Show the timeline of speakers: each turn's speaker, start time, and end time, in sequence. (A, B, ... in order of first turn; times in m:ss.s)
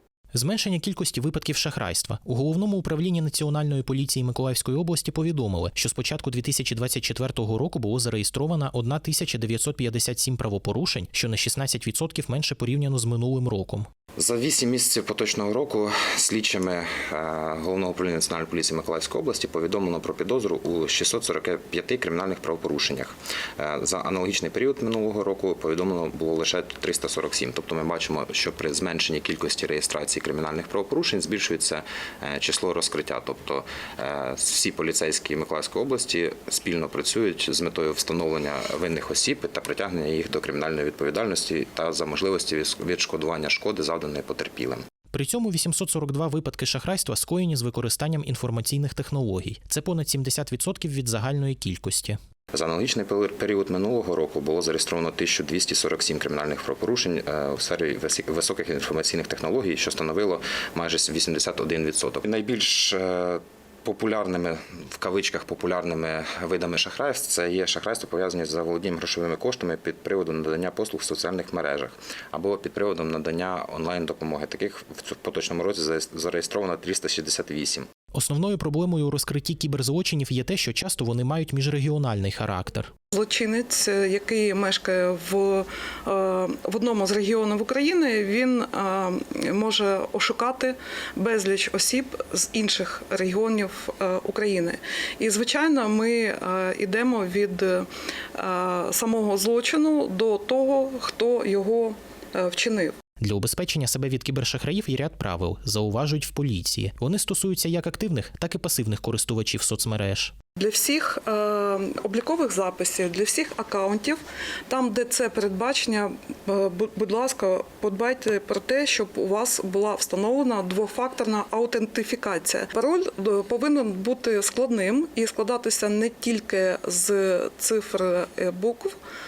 0:00.3-0:13.9 A
0:14.2-0:44.8 B
0:45.1-0:52.2 A
0:52.5-1:17.9 B
1:18.1-1:22.9 A
1:23.1-1:37.9 C
1:38.4-1:42.9 C
1:43.2-1:50.3 A
1:50.6-2:09.0 C